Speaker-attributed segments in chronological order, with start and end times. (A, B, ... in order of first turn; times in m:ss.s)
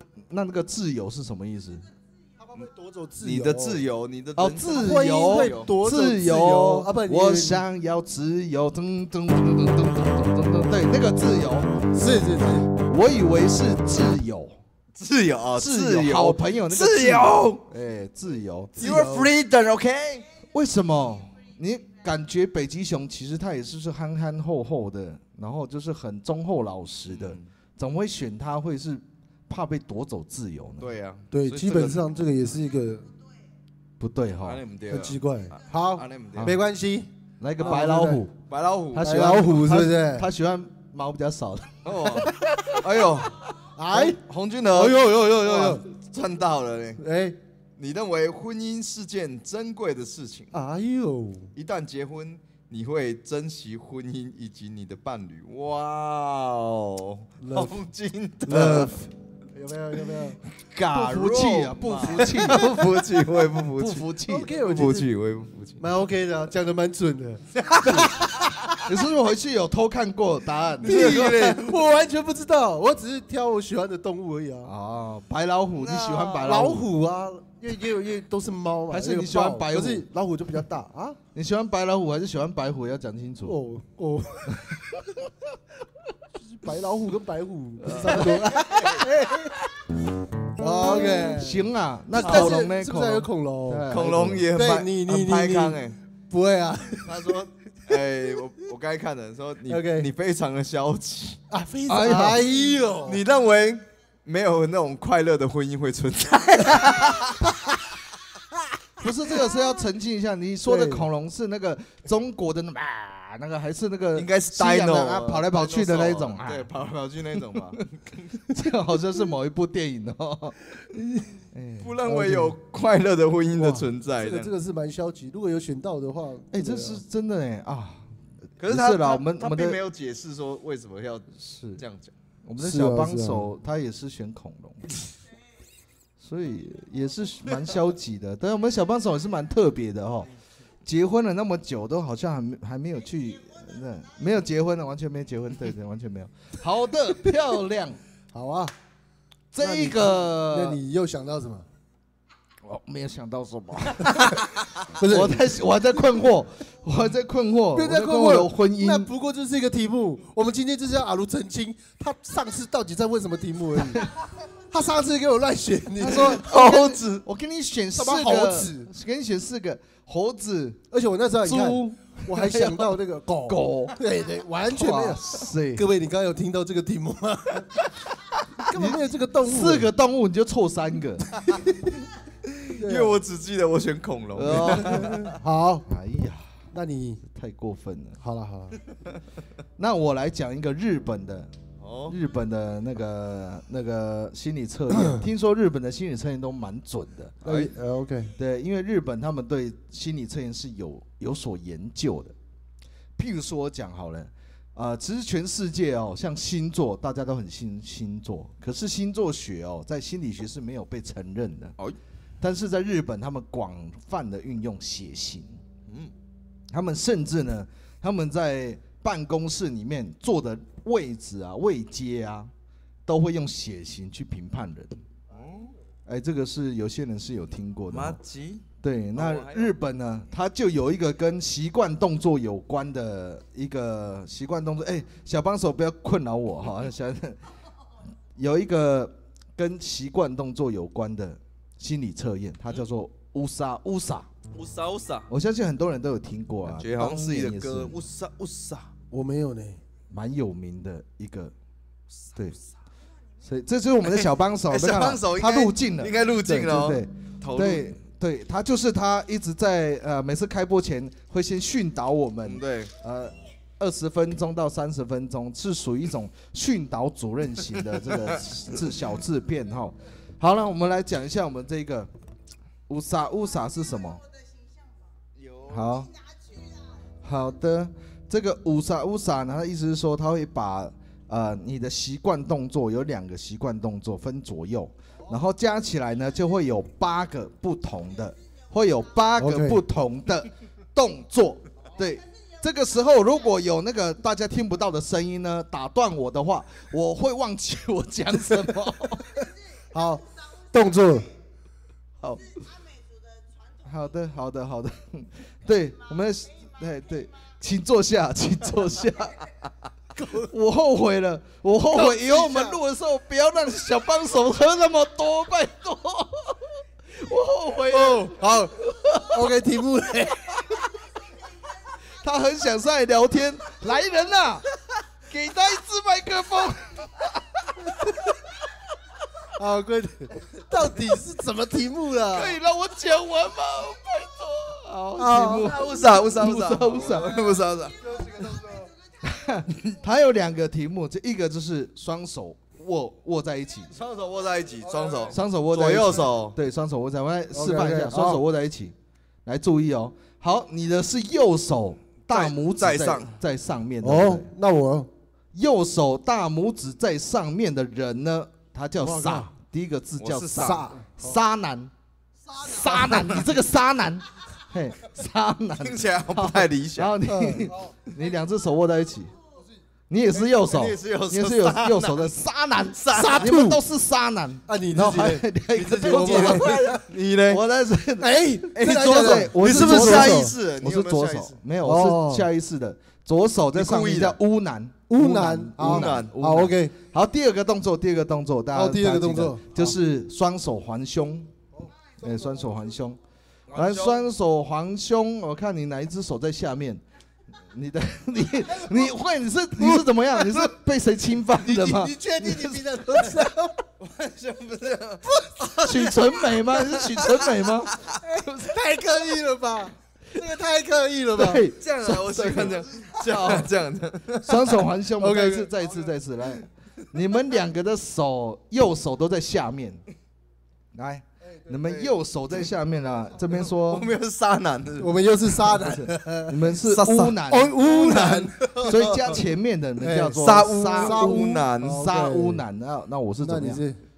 0:00.3-0:01.9 A
0:02.4-0:03.8 B
0:03.2-0:05.7 C
0:04.4-0:11.8 A
0:04.7-0:07.6 B
0:11.9-0:12.7 B
0:12.7-0:14.6 A
0:15.0-0:17.6 C
0:15.6-0:18.8 A
0:18.8-0:19.3 B
0:18.8-0:20.3 C
0:20.5-0:30.9 A
0:27.1-0:27.5 C
0:30.8-0:32.0 C
0:31.3-0:33.1 B
0:34.0-0:34.6 A
0:34.4-0:36.5 C
0:34.9-0:37.1 B
0:36.4-0:36.6 A
0:37.4-0:38.4 A
0:37.6-0:38.2 B
0:38.5-0:39.1 C
0:38.9-0:42.3 A
0:39.0-0:40.3 B
0:41.8-0:47.0 C
0:43.8-0:44.2 B
0:44.7-0:45.8 B
0:47.0-0:47.4 B
0:47.8-0:50.5 C
0:50.5-0:51.5 B
0:51.6-0:59.0 C
0:57.4-0:57.7 B
0:58.5-1:00.4 B
1:00.7-1:02.7 A
1:01.0-1:05.8 C
1:02.1-1:02.8 B
1:03.8-1:04.5 A
1:04.3-1:05.1 B
1:05.8-1:08.5 B
1:07.6-1:08.8 C
1:08.8-1:11.3 A
1:10.8-1:11.8 C
1:10.8-1:14.7 B
1:14.6-1:16.9 A
1:15.8-1:16.6 C
1:16.4-1:21.2 B
1:18.9-1:20.1 A
1:21.3-1:23.6 A
1:23.4-1:24.8 B
1:24.5-1:24.8 A
1:26.4-1:29.6 B
1:27.9-1:29.0 C
1:27.9-1:28.4 A
1:30.6-1:33.9 B
1:30.7-1:34.5 A
1:32.2-1:32.6 C
1:33.9-1:36.0 C
1:34.5-1:37.4 B
1:37.1-1:41.4 C
1:39.7-1:40.1 B
1:41.5-1:43.2 B
1:41.9-1:42.5 A
1:43.1-1:47.6 C
1:49.0-1:56.7 A
1:50.7-1:51.1 B
1:54.2-1:58.4 C
1:57.6-1:57.8 A
1:58.5-2:00.6 A
2:00.9-2:01.3 B
2:01.5-2:02.0 A
2:01.8-2:04.5 C
2:02.0-2:02.6 B
2:03.5-2:07.0 B
2:06.5-2:08.1 A
2:08.6-2:12.1 C
2:08.6-2:09.8 A
2:11.4-2:11.8 A
2:12.4-2:14.9 A
2:12.6-2:13.5 B
2:16.2-2:20.3 A
2:20.8-2:28.0 A
2:28.3-2:28.7 B
2:29.5-2:30.8 A
2:29.6-2:31.7 B
2:32.6-2:39.1 A
2:34.1-2:34.3 B
2:35.0-2:35.5 B
2:37.7-2:44.1 B
2:44.7-2:47.0 B
2:46.0-2:50.8 A
2:48.0-2:48.9 B
2:50.9-2:57.7 B
2:51.4-2:54.0 A
2:54.7-2:55.8 A
2:58.7-2:59.9 B
2:58.7-3:01.3 A
3:02.5-3:05.4 C
3:02.8-3:03.2 B
3:04.3-3:05.2 A
3:04.5-3:05.9 B
3:05.9-3:06.5 A
3:06.7-3:07.2 B
3:07.3-3:08.2 A
3:08.2-3:08.8 B
3:09.8-3:11.5 A
3:11.8-3:12.2 C
3:12.1-3:17.6 A
3:14.9-3:15.2 B
3:17.4-3:18.3 B
3:18.4-3:22.4 A
3:23.2-3:31.8 A
3:32.4-3:35.6 A
3:36.7-3:42.5 A
3:43.1-3:45.0 A
3:45.3-3:45.7 C
3:46.1-3:48.2 A
3:47.9-3:49.7 C
3:48.8-3:57.4 A
3:58.4-4:04.3 A
4:04.5-4:05.3 C
4:05.3-4:08.0 A
4:06.6-4:08.9 C
4:09.1-4:09.8 B
4:10.1-4:11.5 A
4:12.2-4:12.6 C
4:13.4-4:32.1 A
4:14.1-4:17.9 C
4:22.4-4:22.9 C
4:32.9-4:34.2 A
4:35.4-4:36.0 C
4:35.7-4:36.1 A
4:37.2-4:59.4 A
4:49.4-4:49.8 B
4:59.9-5:01.3 B
5:03.8-5:09.4 A
5:10.2-5:10.5 B
5:10.3-5:19.2 A
5:11.9-5:12.8 B
5:17.9-5:20.7 B
5:22.2-5:24.7 A
5:25.3-5:27.6 A
5:27.9-5:28.3 B
5:29.5-5:32.6 B
5:32.3-5:37.6 A
5:35.2-5:35.8 B
5:35.2-5:38.0 C
5:38.0-5:38.9 B
5:39.2-5:43.9 A
5:43.9-5:46.6 C
5:45.3-5:54.5 A
5:47.5-5:48.4 B
5:52.3-5:53.3 C
5:54.0-5:55.1 B
5:55.5-6:01.9 A
5:59.0-5:59.5 B
6:00.2-6:00.9 C
6:02.6-6:09.3 A
6:02.8-6:03.5 C
6:05.8-6:07.2 C
6:07.2-6:07.9 B
6:10.1-6:16.9 A
6:10.3-6:12.3 C
6:12.9-6:13.5 C
6:13.2-6:13.8 B
6:14.7-6:17.0 B
6:16.0-6:17.6 C
6:17.5-6:31.5 A
6:18.2-6:20.5 B
6:18.8-6:21.6 C
6:21.8-6:22.5 B
6:23.7-6:24.4 C
6:25.1-6:27.0 B
6:25.8-6:26.4 C
6:28.7-6:29.8 B
6:32.2-6:33.2 A
6:33.7-6:34.2 C
6:33.7-6:37.0 A
6:37.5-6:43.5 A
6:39.8-6:40.1 B
6:41.6-6:43.8 B
6:44.0-6:47.4 C
6:45.3-6:46.1 B
6:45.8-6:48.0 A
6:48.1-6:51.6 B
6:51.4-6:53.7 A
6:51.8-6:54.8 C
6:54.4-7:00.0 A
6:55.2-6:55.8 B
7:00.9-7:04.1 A
7:01.8-7:02.2 C
7:03.6-7:05.5 C
7:05.0-7:06.7 B
7:05.8-7:07.7 A
7:06.8-7:09.4 C
7:07.5-7:09.2 B
7:08.8-7:13.8 A
7:10.0-7:12.6 B
7:10.4-7:12.0 C
7:13.4-7:14.0 B